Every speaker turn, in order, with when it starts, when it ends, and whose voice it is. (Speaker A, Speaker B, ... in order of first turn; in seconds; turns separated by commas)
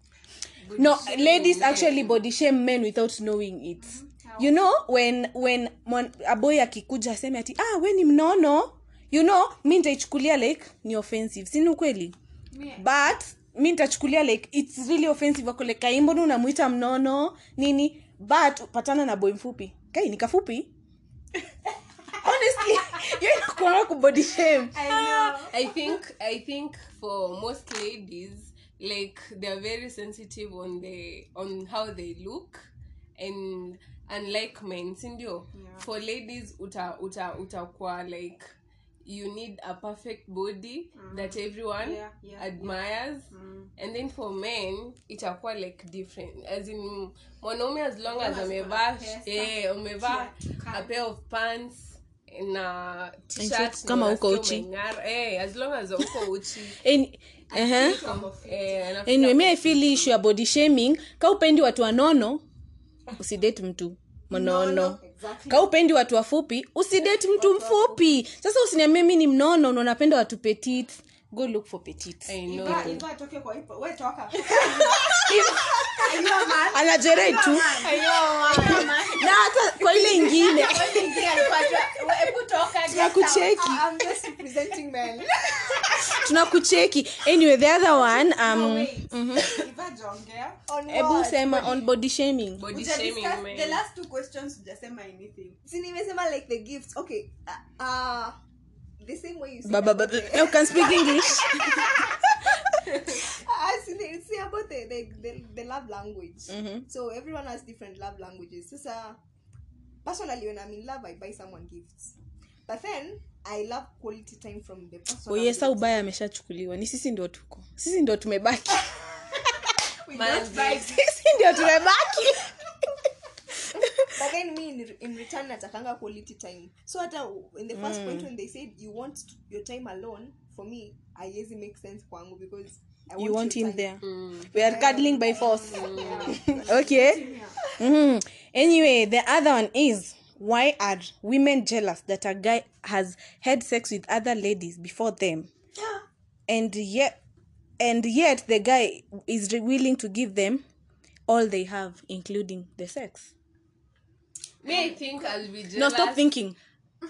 Speaker A: 0.6-2.2, Speaker B: 0.8-12.1, Speaker C: 3.8-4.6, Speaker C: 12.5-12.9, Speaker B: 12.8-20.7, Speaker B: 22.2-25.4, Speaker C: 24.7-25.7, Speaker A: 25.5-38.5, Speaker C: 35.5-35.9, Speaker A: 39.0-56.8, Speaker C: 41.0-43.7, Speaker C: 48.1-50.9, Speaker B: 53.4-54.7, Speaker B: 56.8-58.0, Speaker C: 57.5-58.9, Speaker A: 57.7-60.1, Speaker B: 59.0-62.4, Speaker B: 63.2-73.0, Speaker D: 64.3-65.7, Speaker D: 67.3-68.0, Speaker A: 72.2-73.0, Speaker C: 72.5-75.3, Speaker B: 74.7-76.1, Speaker D: 75.0-75.9, Speaker C: 76.0-79.4, Speaker B: 76.7-78.0, Speaker A: 77.8-78.9, Speaker D: 78.0-79.0, Speaker B: 78.6-81.7, Speaker D: 79.9-80.5, Speaker C: 80.0-83.7, Speaker B: 82.8-83.9, Speaker D: 83.3-86.2, Speaker B: 85.7-89.7, Speaker C: 88.0-90.6, Speaker D: 90.7-91.9, Speaker B: 90.9-92.7, Speaker A: 92.6-93.8, Speaker C: 92.7-95.6, Speaker D: 95.6-98.4, Speaker D: 99.0-109.2, Speaker B: 99.6-102.6, Speaker B: 106.5-106.8, Speaker D: 110.0-116.0, Speaker B: 115.3-118.9, Speaker C: 120.0-121.0, Speaker A: 120.1-121.0, Speaker B: 120.9-122.9, Speaker B: 123.6-124.1, Speaker D: 124.0-133.9, Speaker B: 127.7-128.3, Speaker B: 133.2-145.5, Speaker A: 134.0-134.5, Speaker D: 134.5-137.1, Speaker C: 135.4-137.6, Speaker A: 135.6-136.4, Speaker B: 146.5-147.2, Speaker B: 147.8-150.6, Speaker B: 151.3-153.3, Speaker A: 154.6-156.3, Speaker C: 154.7-155.0, Speaker B: 155.7-156.6